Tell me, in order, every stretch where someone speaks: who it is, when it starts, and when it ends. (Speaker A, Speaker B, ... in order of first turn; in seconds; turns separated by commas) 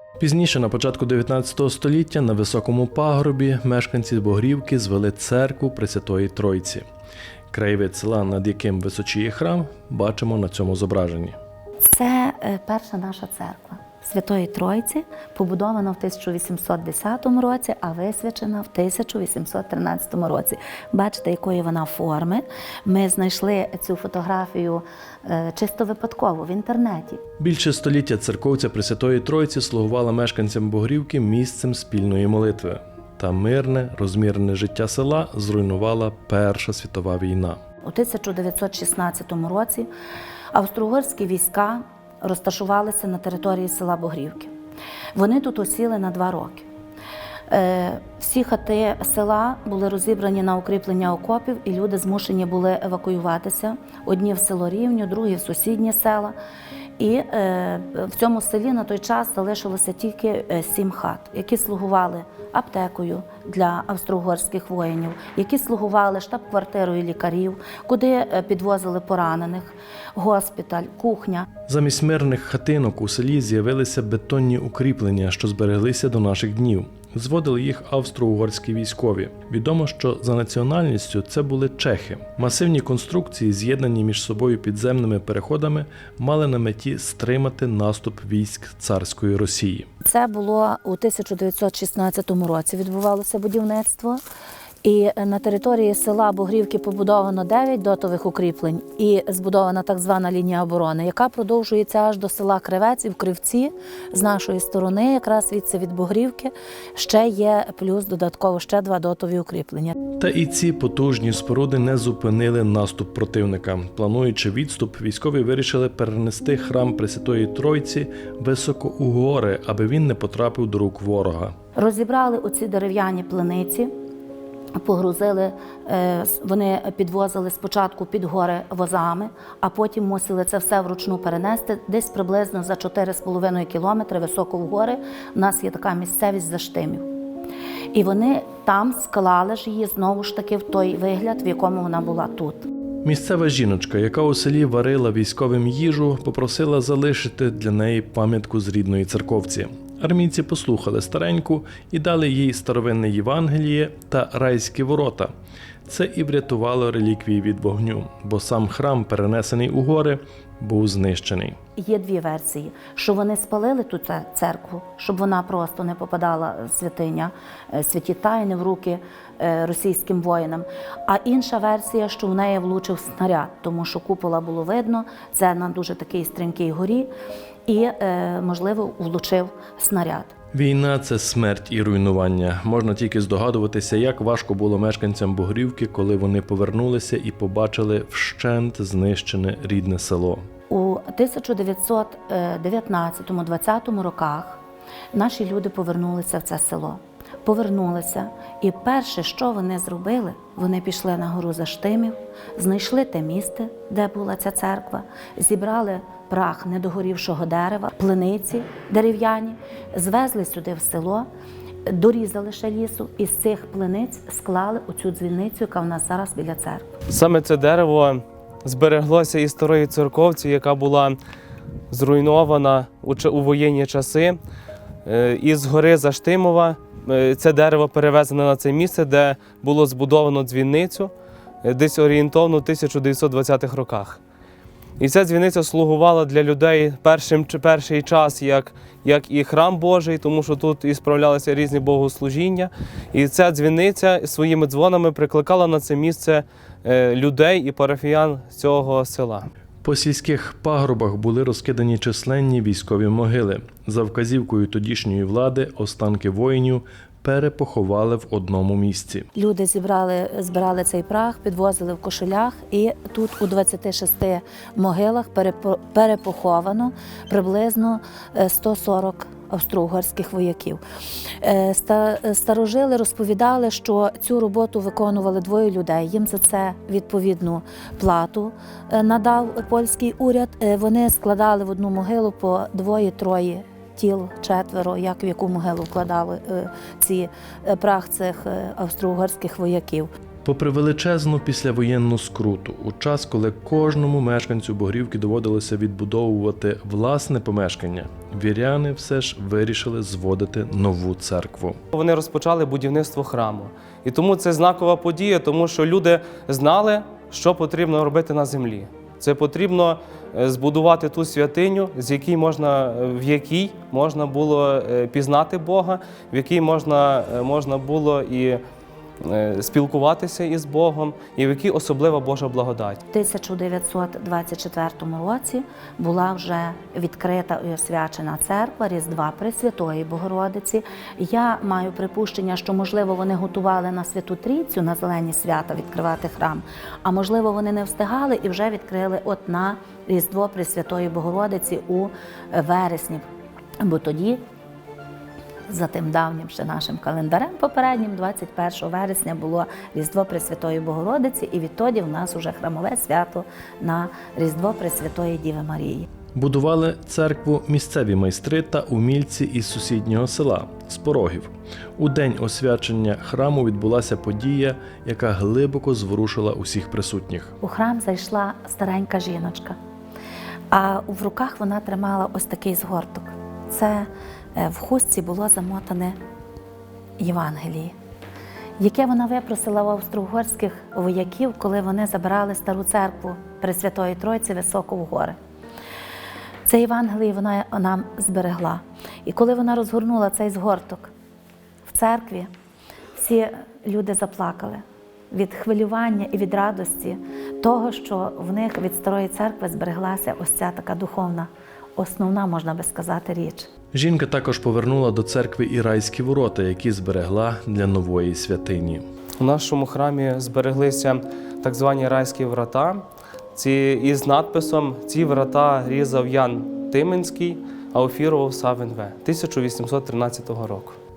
Speaker A: 0.2-6.8, Speaker A: 7.5-11.4, Speaker B: 11.8-27.2, Speaker A: 27.4-37.6, Speaker B: 37.8-39.9, Speaker B: 40.5-44.5, Speaker B: 45.1-46.7, Speaker B: 47.5-56.4, Speaker B: 57.0-71.5, Speaker A: 71.7-89.9, Speaker B: 90.0-94.2, Speaker B: 94.8-110.0, Speaker A: 110.2-121.5, Speaker B: 121.8-123.9, Speaker B: 124.8-137.1, Speaker B: 137.9-142.7, Speaker A: 143.1-155.3, Speaker A: 155.9-161.6, Speaker B: 161.8-177.1, Speaker B: 177.7-180.3, Speaker A: 180.5-190.4, Speaker B: 190.7-194.6, Speaker B: 195.1-211.3, Speaker B: 211.9-216.8, Speaker C: 217.1-221.2, Speaker C: 221.9-224.4, Speaker C: 225.1-231.1, Speaker C: 231.6-234.2, Speaker C: 235.0-249.5, Speaker A: 249.8-259.3, Speaker B: 259.3-270.8, Speaker B: 271.4-290.1, Speaker A: 290.4-301.8, Speaker C: 301.9-318.6, Speaker C: 319.2-323.0, Speaker B: 323.1-343.3, Speaker B: 343.8-344.4, Speaker B: 345.7-356.1, Speaker A: 356.4-367.5, Speaker B: 367.6-369.8, Speaker B: 370.7-376.2, Speaker B: 377.2-377.9, Speaker B: 378.8-385.4, Speaker B: 386.7-391.1, Speaker B: 391.9-392.5, Speaker B: 393.2-403.7, Speaker A: 403.9-409.0, Speaker C: 409.4-421.0